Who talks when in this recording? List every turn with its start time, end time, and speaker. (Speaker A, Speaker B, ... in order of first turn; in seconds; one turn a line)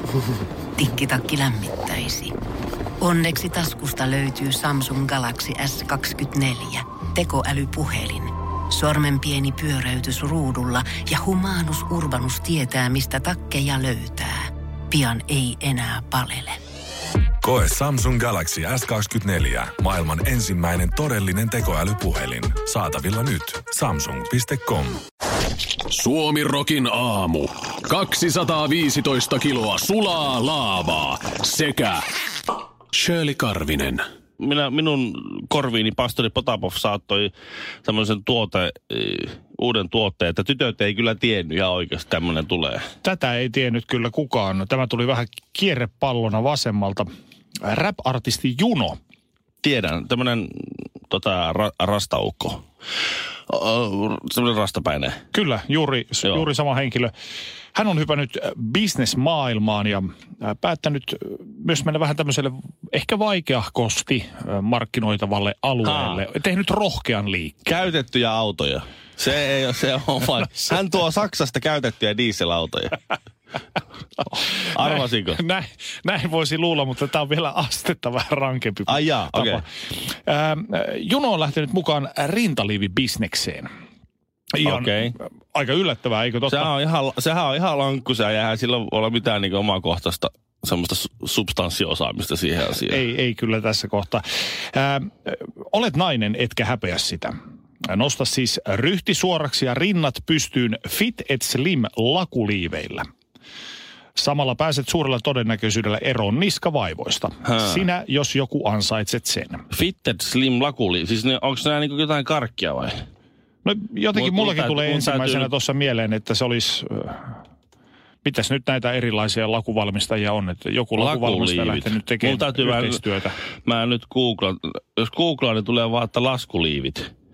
Speaker A: 0.8-2.3
Speaker A: 3.0-16.6
Speaker B: 17.4-25.0
Speaker C: 25.9-32.1
Speaker C: 32.9-34.1
Speaker D: 34.4-37.3
Speaker D: 37.9-42.8
Speaker E: 43.0-47.1
Speaker E: 47.6-49.0
Speaker D: 49.6-52.6
Speaker D: 53.5-55.2
Speaker E: 55.3-57.1
Speaker E: 57.7-67.5
Speaker D: 65.8-66.2
Speaker D: 67.7-73.0
Speaker D: 74.4-75.4
Speaker E: 74.8-79.6
Speaker D: 78.9-79.6
Speaker E: 80.2-83.7
Speaker E: 84.6-84.9
Speaker D: 84.6-85.2
Speaker E: 85.5-86.7
Speaker D: 86.5-93.0
Speaker E: 92.9-103.1
Speaker E: 104.2-109.6
Speaker D: 107.5-107.8
Speaker D: 109.7-113.0
Speaker E: 113.7-117.2
Speaker D: 114.1-115.5
Speaker E: 118.2-123.4
Speaker D: 121.0-123.0
Speaker D: 123.7-127.1